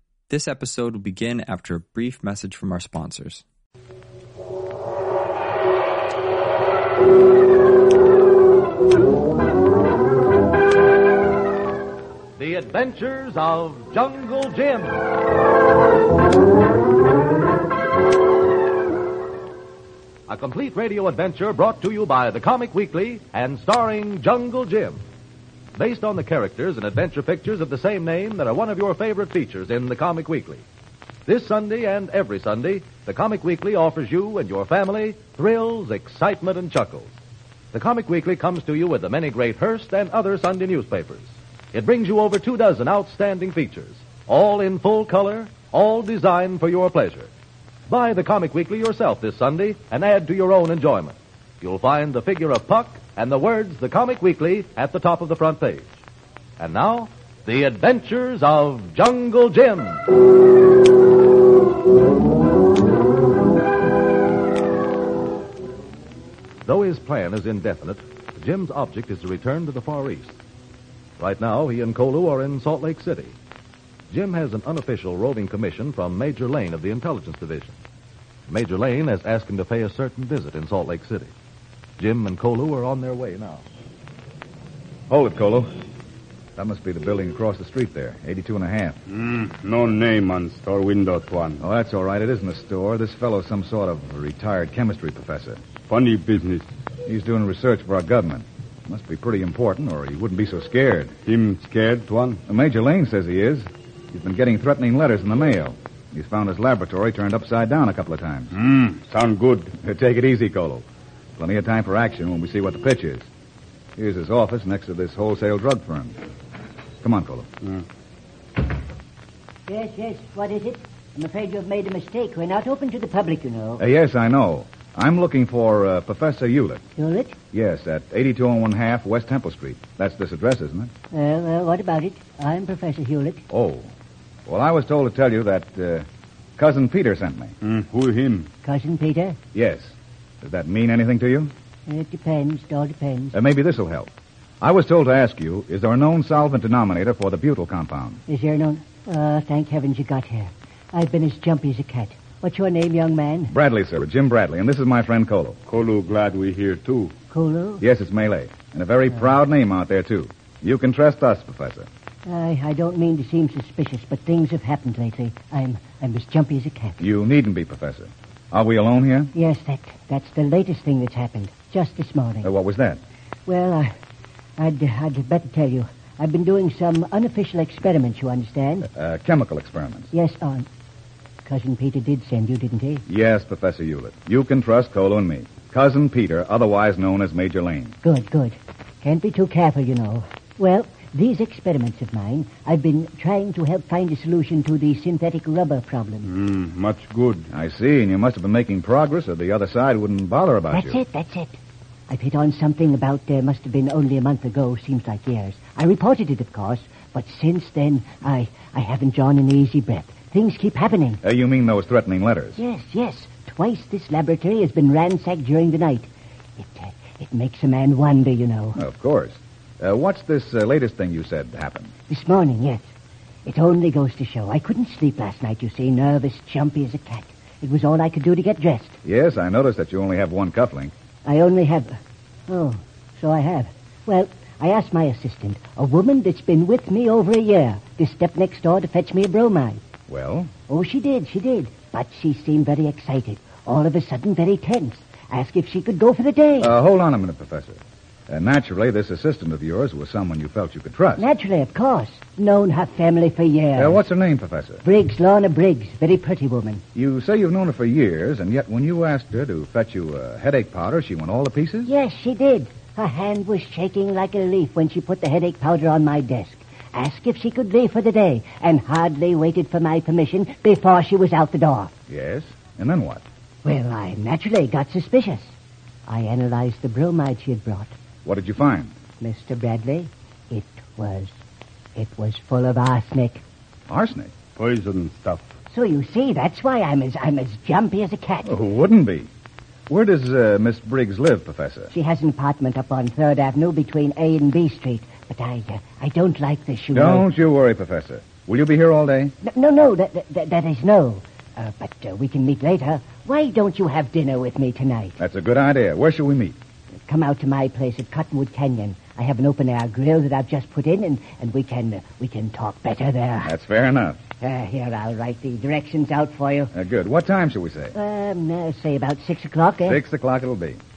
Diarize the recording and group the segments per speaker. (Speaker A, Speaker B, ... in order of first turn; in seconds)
Speaker A: 0.3-3.4
Speaker B: 12.4-15.0, 20.3-25.0, 25.8-30.6, 31.3-37.1, 37.7-47.3, 47.9-55.9, 56.6-60.0, 66.7-70.4, 71.2-73.3, 74.1-77.8, 78.5-81.3, 82.0-83.6
Speaker C: 85.1-85.7, 86.6-89.0, 91.6-95.6, 97.1-101.1, 102.5-108.5, 109.8-110.8, 111.4-113.3, 114.0-116.2, 117.0-117.5, 123.8-126.8, 127.5-130.9, 133.5-133.9, 134.5-136.1, 136.6-137.5, 139.5-141.5, 143.3-144.1, 144.6-148.2, 153.5-155.6, 157.8-161.9, 167.0-169.3, 172.4-173.0, 178.9-180.1, 183.1-188.0, 197.5-201.0, 211.2-212.6, 218.8-221.9, 229.0-230.9, 240.1-240.5, 246.6-251.3, 253.8-254.8, 256.9-261.9, 272.1-273.2, 278.2-278.9, 283.9-284.3, 288.4-289.3, 289.9-291.9, 296.9-299.3, 305.2-306.6, 313.4-314.2, 316.7-317.9, 319.8-320.8
Speaker D: 89.1-91.6, 95.9-96.7, 101.2-102.4, 108.5-109.7, 137.6-138.5, 155.7-157.1, 196.2-197.5, 284.6-285.5
Speaker E: 119.7-123.8, 127.0-127.4, 131.1-133.4, 138.6-139.4, 141.9-143.4, 148.3-153.5, 157.3-157.8, 162.3-167.0, 169.3-172.5, 173.5-173.9, 174.6-178.9, 180.1-180.7, 181.4-183.1, 188.0-196.3, 200.7-201.6, 202.1-211.2, 212.6-218.8, 222.1-222.9, 223.4-229.0, 231.2-232.0, 232.5-239.8, 240.7-246.8, 251.2-254.0, 254.8-256.8, 261.8-271.9, 273.6-275.5, 276.1-277.9, 279.2-281.4, 281.9-283.4, 285.7-288.6, 291.9-297.3, 299.4-305.2, 307.1-313.6, 314.4-316.7, 317.9-320.0